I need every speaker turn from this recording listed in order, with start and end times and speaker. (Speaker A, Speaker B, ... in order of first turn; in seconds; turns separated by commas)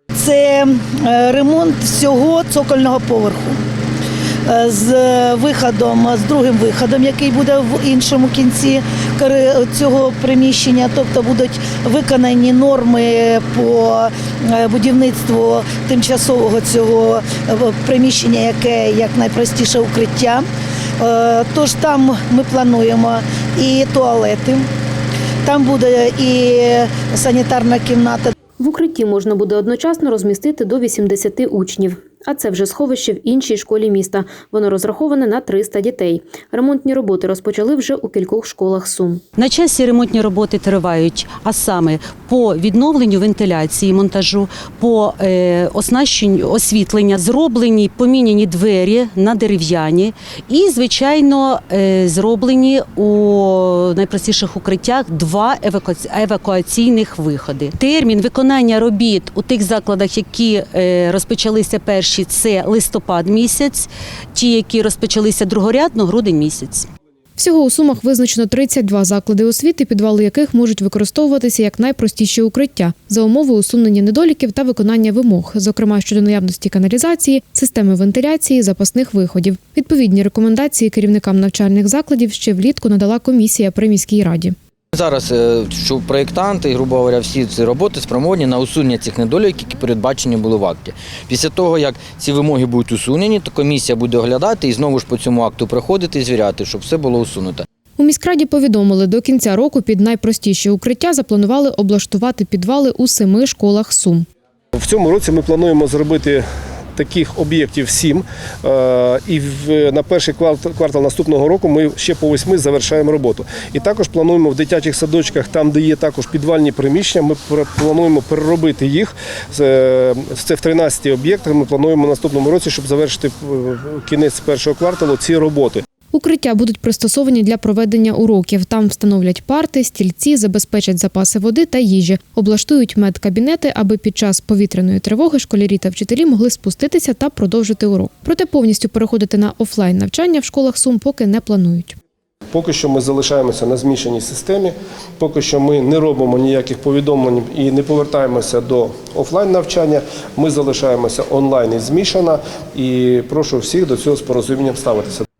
Speaker A: 0.2-3.5, Speaker A: 4.5-20.4, Speaker A: 21.0-24.6, Speaker A: 25.4-28.3, Speaker B: 28.6-39.2, Speaker C: 39.4-66.9, Speaker B: 67.3-84.5, Speaker D: 84.9-97.6, Speaker B: 98.0-104.2, Speaker E: 104.8-106.4, Speaker E: 106.9-125.8, Speaker B: 126.1-142.0, Speaker E: 142.5-155.2